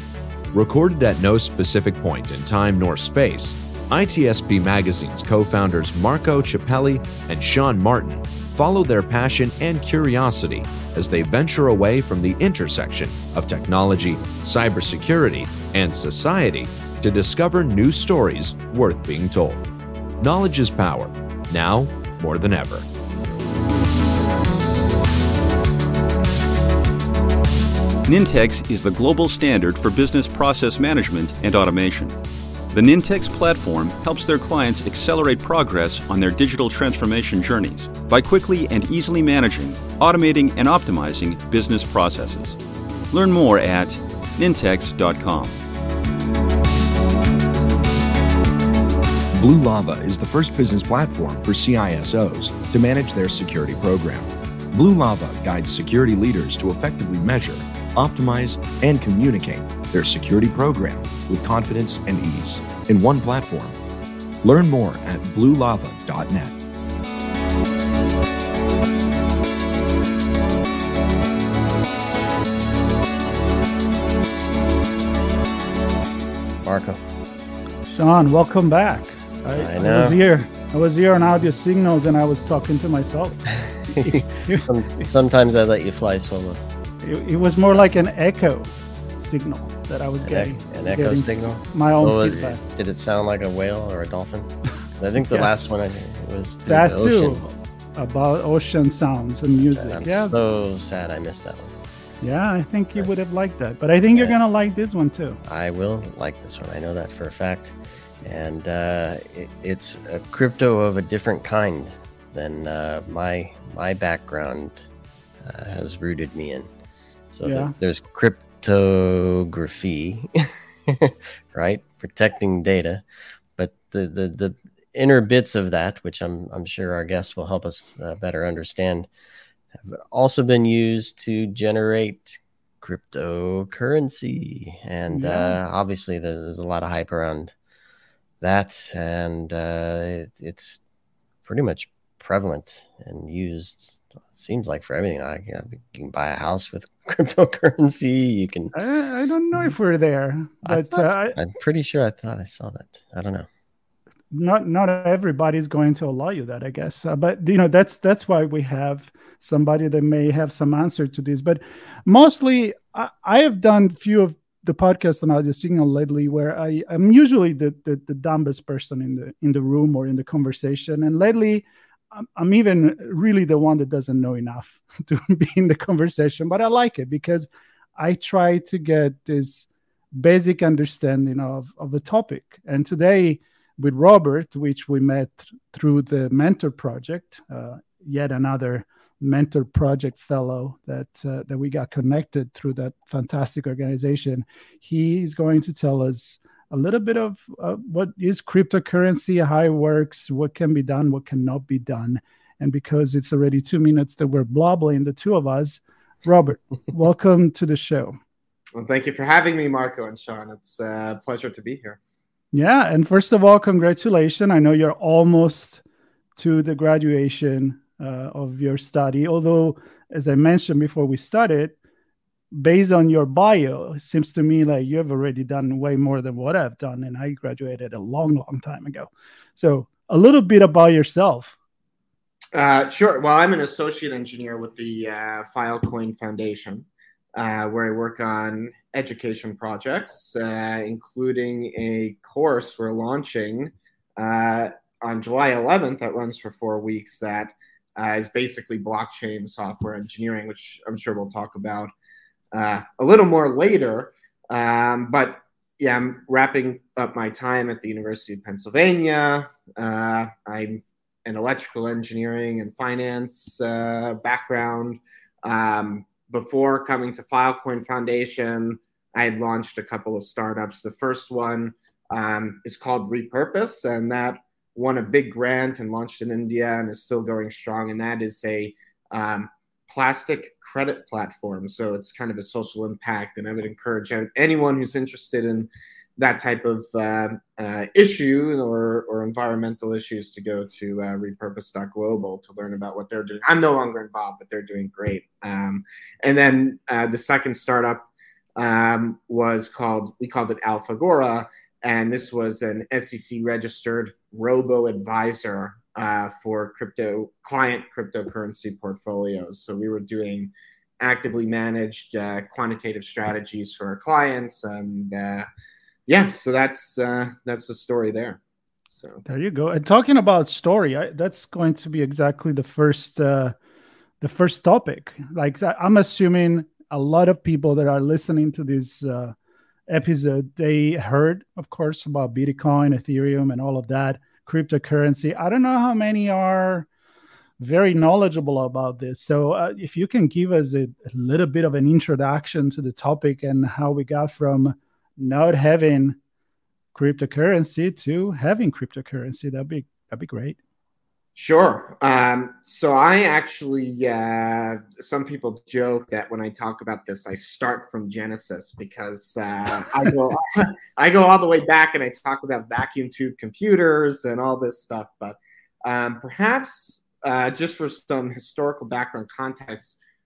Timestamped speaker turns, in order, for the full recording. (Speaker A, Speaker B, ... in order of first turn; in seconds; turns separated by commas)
Speaker A: 0.5-19.6, Speaker A: 20.2-22.9, Speaker B: 28.1-32.1, Speaker B: 32.7-42.6, Speaker B: 43.1-45.6, Speaker A: 49.4-63.8, Speaker A: 64.4-66.5, Speaker C: 76.6-77.0, Speaker D: 77.9-84.7, Speaker C: 79.5-80.2, Speaker C: 83.6-86.6, Speaker D: 87.0-92.6, Speaker C: 90.2-97.4, Speaker D: 95.2-95.7, Speaker D: 96.7-100.3, Speaker C: 99.7-101.8, Speaker D: 102.2-105.4, Speaker C: 105.4-114.8, Speaker C: 115.4-116.7, Speaker C: 117.3-123.0, Speaker D: 117.4-117.7, Speaker C: 123.6-129.1, Speaker C: 129.8-137.6, Speaker D: 135.1-135.6, Speaker C: 138.4-140.8, Speaker C: 141.5-148.7, Speaker D: 148.7-151.4, Speaker C: 150.7-153.5, Speaker D: 154.3-208.2, Speaker E: 208.8-212.0, Speaker D: 212.5-215.8, Speaker D: 216.4-221.8, Speaker D: 222.5-231.6, Speaker E: 232.5-251.9, Speaker E: 252.5-315.5, Speaker E: 316.1-319.2, Speaker D: 319.3-323.6, Speaker D: 324.2-329.4, Speaker D: 329.9-336.9, Speaker D: 337.6-346.2, Speaker D: 346.9-350.6, Speaker E: 351.4-370.0